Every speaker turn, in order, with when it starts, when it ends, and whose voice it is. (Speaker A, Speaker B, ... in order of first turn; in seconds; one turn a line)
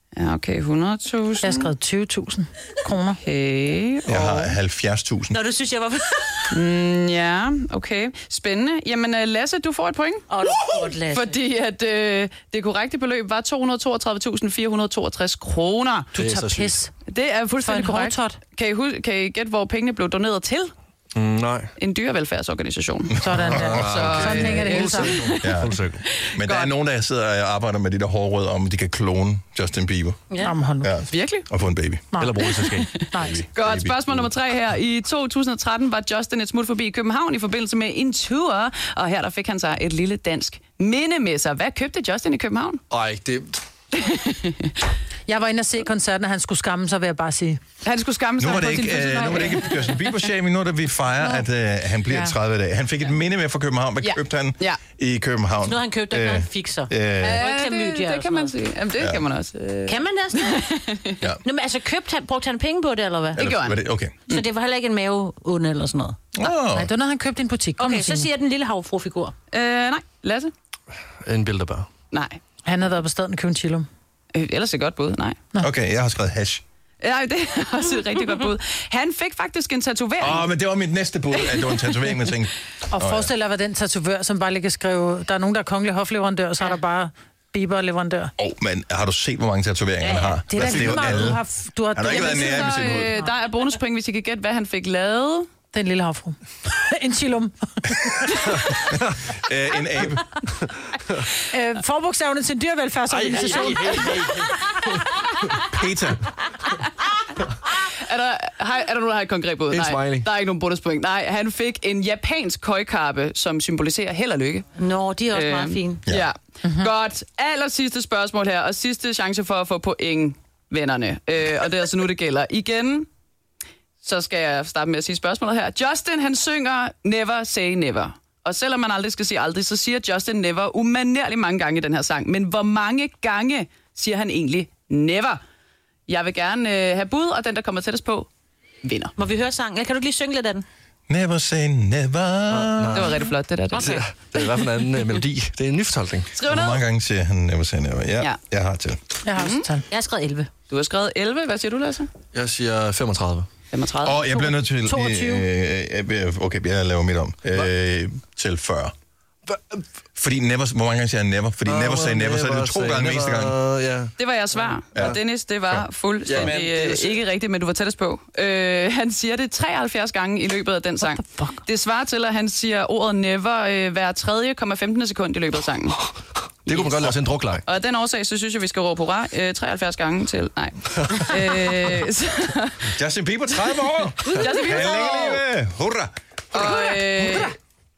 Speaker A: 0.1-1.7
Speaker B: 1.4-3.2
Speaker A: 3.2-4.5
Speaker C: 4.0-5.4
Speaker D: 5.3-6.4
Speaker A: 6.5-10.3
Speaker D: 10.3-11.3
Speaker A: 11.1-16.1
Speaker E: 16.1-16.8
Speaker B: 16.1-16.9
Speaker A: 17.1-20.7
Speaker B: 17.6-18.2
Speaker D: 18.0-18.3
Speaker E: 21.1-21.7
Speaker A: 21.8-25.4
Speaker C: 23.2-24.1
Speaker B: 23.2-25.2
Speaker E: 23.6-26.0
Speaker C: 25.4-25.8
Speaker A: 26.1-26.7
Speaker C: 26.3-30.2
Speaker B: 30.4-30.9
Speaker C: 30.8-32.1
Speaker A: 31.1-31.4
Speaker B: 32.1-33.4
Speaker E: 32.2-34.3
Speaker A: 33.5-42.8
Speaker E: 42.9-43.6
Speaker A: 43.9-44.7
Speaker B: 45.3-47.6
Speaker A: 47.8-50.1
Speaker C: 48.4-57.4
Speaker B: 52.1-52.3
Speaker A: 54.0-54.8
Speaker D: 55.6-58.5
Speaker A: 57.2-61.2
Speaker C: 59.0-59.2
Speaker D: 59.9-60.8
Speaker D: 61.4-63.5
Speaker A: 63.4-64.4
Speaker C: 63.4-64.1
Speaker D: 64.3-66.4
Speaker C: 66.3-66.9
Speaker B: 66.7-68.3
Speaker D: 67.8-69.3
Speaker A: 69.5-70.5
Speaker E: 71.2-71.9
Speaker A: 72.1-72.4
Speaker B: 72.7-73.9
Speaker A: 74.3-75.5
Speaker C: 75.6-76.6
Speaker A: 77.0-80.5
Speaker C: 80.2-83.3
Speaker A: 81.3-82.1
Speaker B: 82.9-88.3
Speaker C: 88.4-91.4
Speaker B: 90.5-93.3
Speaker C: 91.9-93.1
Speaker A: 92.1-95.5
Speaker B: 95.7-98.4
Speaker C: 98.8-100.3
Speaker B: 101.5-104.4
Speaker E: 103.1-104.5
Speaker C: 105.6-106.2
Speaker A: 108.0-114.7
Speaker E: 109.7-110.3
Speaker D: 114.8-116.0
Speaker A: 115.3-123.1
Speaker A: 124.0-135.4
Speaker A: 136.1-138.3
Speaker A: 138.8-139.1
Speaker D: 139.2-140.6
Speaker C: 141.1-143.2
Speaker E: 142.5-143.1
Speaker A: 142.9-144.6
Speaker E: 143.7-146.3
Speaker A: 146.3-146.8
Speaker C: 146.5-149.0
Speaker B: 149.2-149.8
Speaker A: 149.3-149.7
Speaker D: 149.9-150.5
Speaker A: 150.7-152.1
Speaker E: 152.3-153.5
Speaker A: 153.7-154.2
Speaker C: 154.0-158.9
Speaker B: 154.3-155.4
Speaker E: 159.5-159.8
Speaker C: 160.2-163.5
Speaker E: 161.7-165.2
Speaker A: 164.2-176.0
Speaker C: 165.7-166.5
Speaker E: 166.2-167.2
Speaker E: 176.7-177.6
Speaker A: 177.7-182.8
Speaker C: 182.9-186.9
Speaker A: 184.4-185.4
Speaker A: 186.5-187.5